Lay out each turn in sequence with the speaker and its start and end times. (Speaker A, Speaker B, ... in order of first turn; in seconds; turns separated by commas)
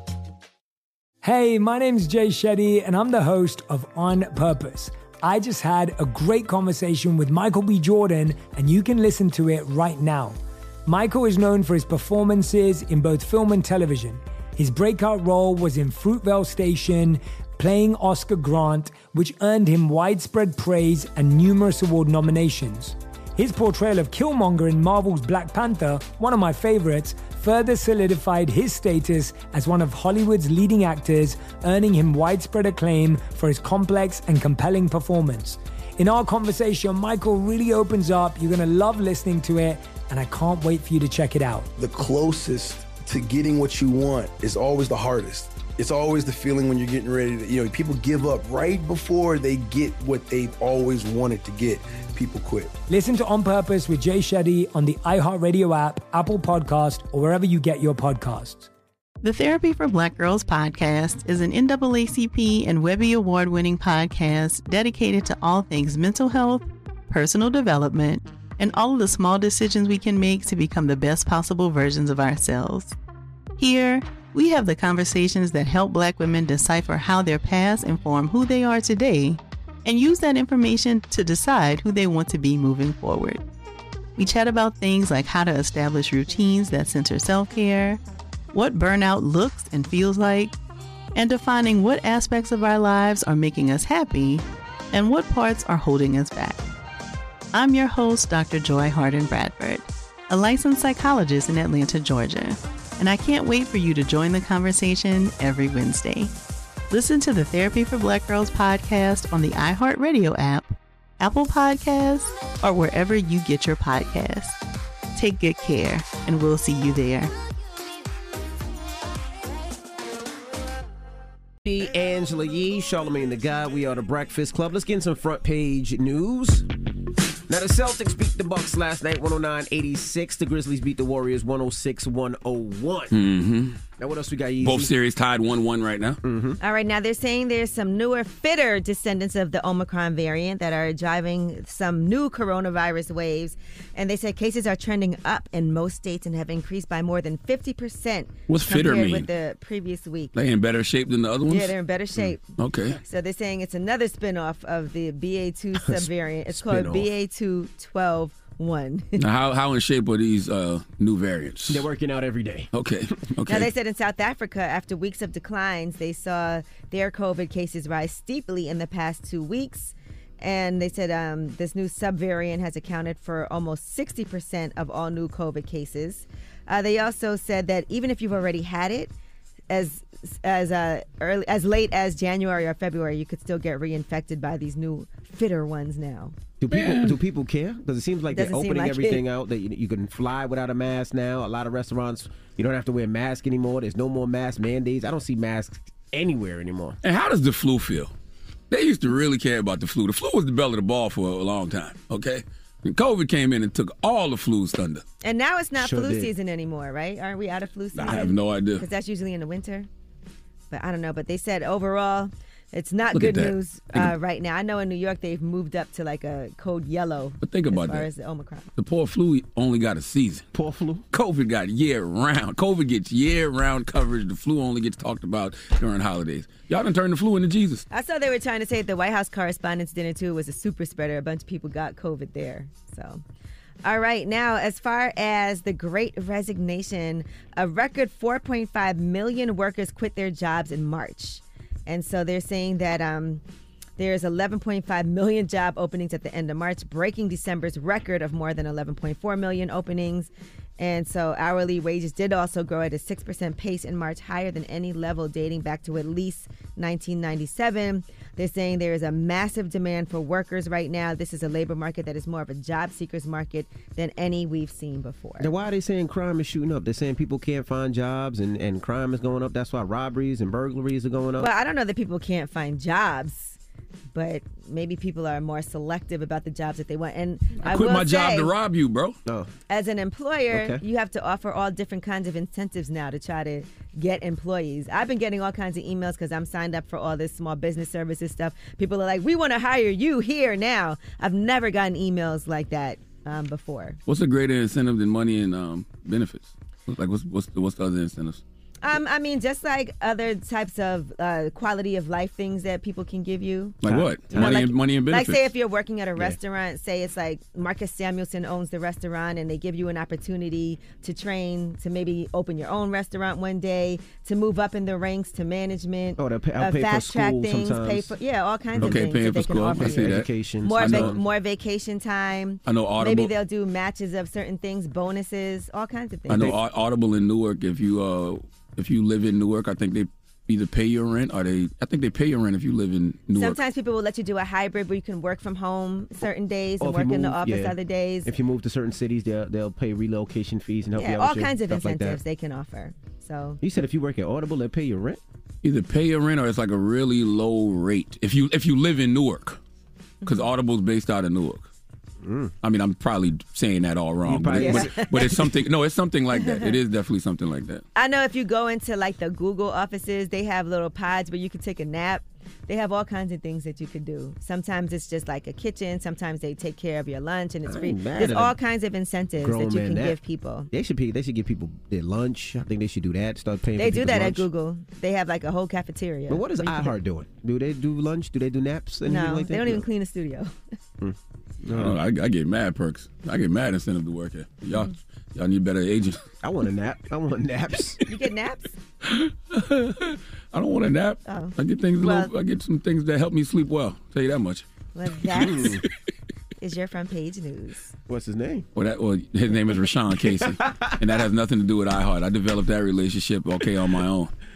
Speaker A: 1.2-41.7, Speaker B: 41.8-52.7, Speaker A: 52.9-58.7, Speaker C: 59.2-73.0, Speaker C: 73.6-83.4, Speaker C: 84.2-88.0, Speaker C: 88.5-90.5, Speaker C: 91.2-96.6, Speaker C: 97.5-106.3, Speaker C: 106.9-114.6, Speaker C: 115.1-117.3, Speaker D: 121.6-126.7, Speaker D: 127.5-133.2, Speaker E: 133.1-133.8, Speaker D: 134.0-134.9, Speaker E: 134.6-136.2, Speaker D: 136.2-136.6, Speaker F: 136.6-150.3, Speaker E: 148.5-149.3, Speaker E: 150.3-151.7, Speaker F: 151.5-152.4, Speaker E: 152.5-153.0, Speaker F: 153.0-159.2, Speaker D: 155.8-157.1, Speaker E: 159.2-161.8, Speaker D: 161.7-162.7, Speaker E: 162.7-163.7, Speaker F: 163.5-179.1, Speaker F: 179.7-186.3, Speaker D: 186.6-197.0, Speaker E: 186.7-187.2, Speaker F: 188.3-189.2, Speaker E: 197.0-198.1, Speaker E: 198.7-205.0, Speaker F: 205.2-209.9, Speaker D: 205.8-206.3, Speaker E: 208.0-208.8, Speaker F: 210.7-218.7, Speaker E: 213.1-214.1, Speaker E: 217.4-218.1, Speaker E: 218.8-220.5, Speaker D: 220.5-221.0, Speaker E: 221.1-227.8, Speaker F: 227.9-233.2, Speaker F: 233.8-243.4, Speaker F: 244.0-265.5, Speaker D: 265.4-271.5, Speaker F: 271.4-273.6, Speaker F: 274.1-278.5, Speaker E: 277.6-279.2, Speaker F: 279.7-294.0, Speaker D: 280.5-280.8, Speaker E: 294.1-298.4, Speaker F: 298.8-303.8, Speaker E: 303.8-305.5, Speaker D: 303.9-304.6, Speaker F: 304.3-326.5, Speaker D: 316.2-318.1, Speaker D: 318.8-319.0, Speaker E: 318.8-321.1, Speaker D: 319.8-321.2, Speaker E: 322.7-323.3, Speaker E: 326.3-333.6, Speaker D: 326.3-326.6, Speaker F: 333.3-338.3, Speaker D: 336.8-342.2, Speaker F: 341.0-343.6, Speaker D: 343.6-345.2, Speaker E: 345.6-349.6, Speaker E: 350.3-351.7, Speaker D: 352.2-352.5, Speaker E: 352.6-357.8, Speaker D: 354.3-355.3, Speaker F: 354.6-355.1, Speaker F: 356.4-356.7, Speaker F: 357.9-370.7, Speaker D: 367.7-368.6, Speaker D: 369.4-370.2, Speaker D: 370.7-374.4, Speaker F: 373.8-377.0, Speaker D: 376.3-379.9, Speaker F: 379.1-380.5, Speaker D: 381.0-382.0, Speaker E: 381.7-386.3, Speaker D: 386.4-388.0, Speaker F: 388.1-388.7, Speaker E: 389.0-394.6, Speaker F: 391.3-392.3, Speaker F: 394.9-395.8, Speaker E: 395.4-395.7, Speaker D: 395.4-395.8, Speaker F: 396.6-397.9, Speaker D: 398.1-398.6, Speaker E: 398.8-404.3, Speaker D: 400.4-400.9